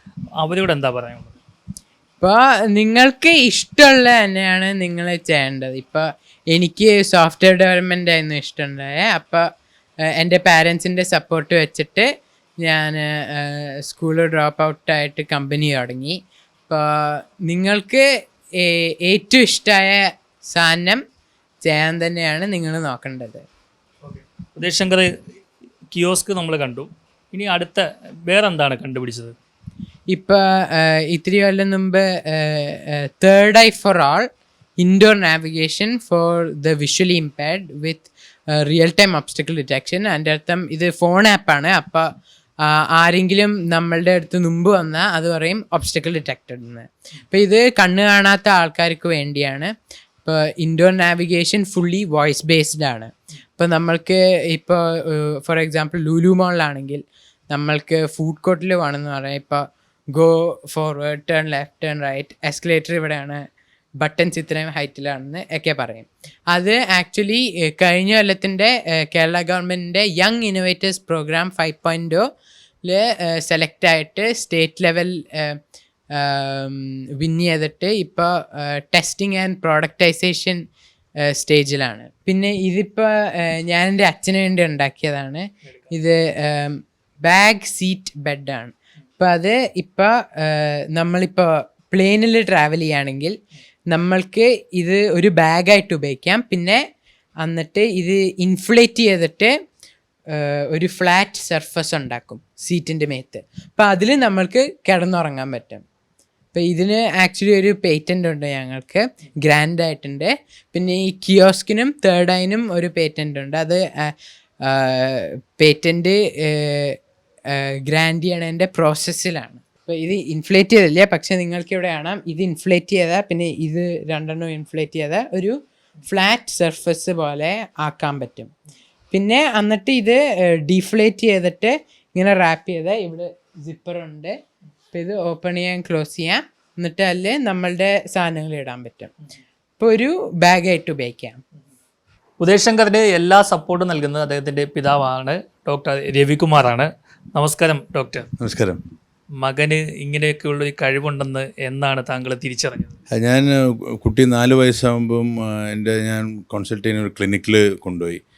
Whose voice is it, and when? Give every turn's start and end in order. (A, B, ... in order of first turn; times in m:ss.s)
0:00.4-0:01.3 A
0:02.2-0:09.4 B
0:10.1-0:12.1 B
0:12.6-0:16.2 B
0:16.7-0:18.0 B
0:18.6-0:21.0 B
0:21.6-0:23.4 B
0:24.0-0:25.1 A
0:25.9-0:29.3 A
0:30.1-0:34.2 B
0:34.8-0:42.1 B
0:42.7-0:49.7 B
0:50.2-0:59.6 B
1:00.1-1:03.4 B
1:04.0-1:12.2 B
1:12.8-1:15.6 B
1:16.1-1:20.6 B
1:21.2-1:33.3 B
1:33.9-1:36.8 B
1:37.4-1:39.5 B
1:40.3-1:45.8 B
1:46.5-1:54.1 B
1:54.6-1:57.0 B
1:57.5-2:05.5 B
2:06.0-2:08.5 B
2:09.1-2:14.3 B
2:14.9-2:19.1 B
2:19.8-2:21.4 B
2:22.4-2:28.3 A
2:28.4-2:28.8 C
2:29.4-2:33.0 A
2:33.1-2:38.2 C